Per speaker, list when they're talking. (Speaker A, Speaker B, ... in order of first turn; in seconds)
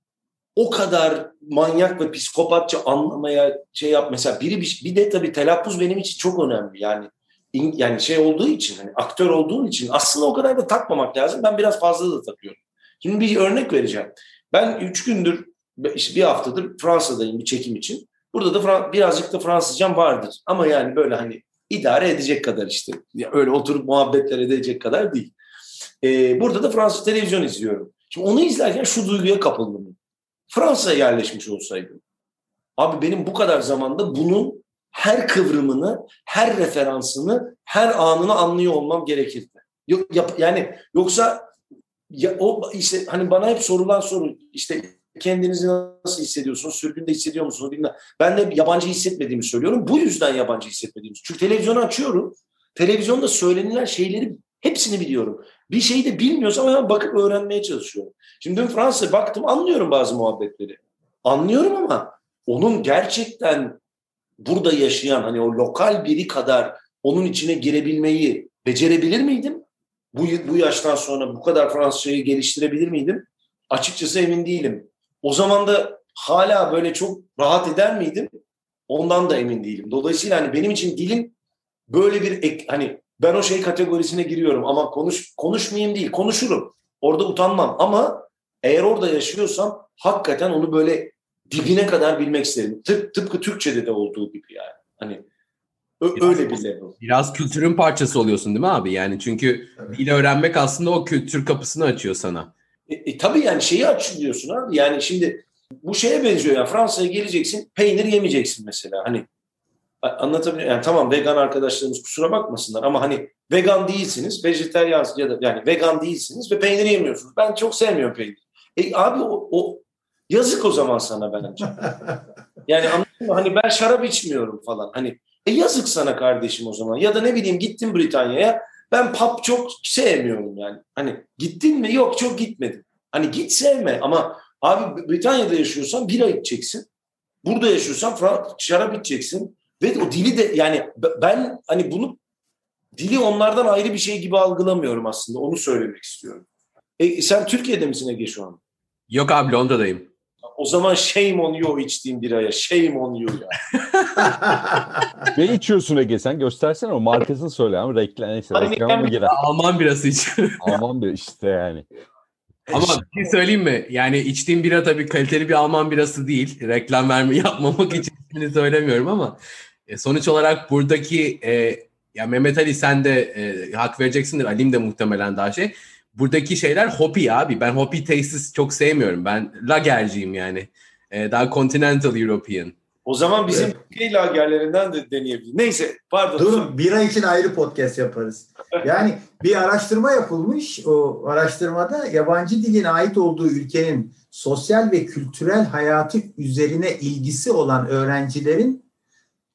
Speaker A: 0.6-25.3, 26.0-30.0, 30.5-32.0, 32.8-41.5, 42.1-63.8, 64.4-78.3, 78.9-81.3, 81.9-95.2, 96.0-97.0, 102.9-109.2, 110.0-121.8, 122.7-136.9, 137.4-142.2, 142.9-146.4, 147.0-148.6, 150.6-153.6, 158.5-159.1, 183.1-186.7
Speaker B: 96.2-102.5, 149.1-150.1, 153.9-154.4, 159.2-160.8, 162.7-169.4, 169.9-182.8
Speaker C: 155.3-159.4, 160.6-161.8, 162.7-163.0
Speaker D: 186.4-198.8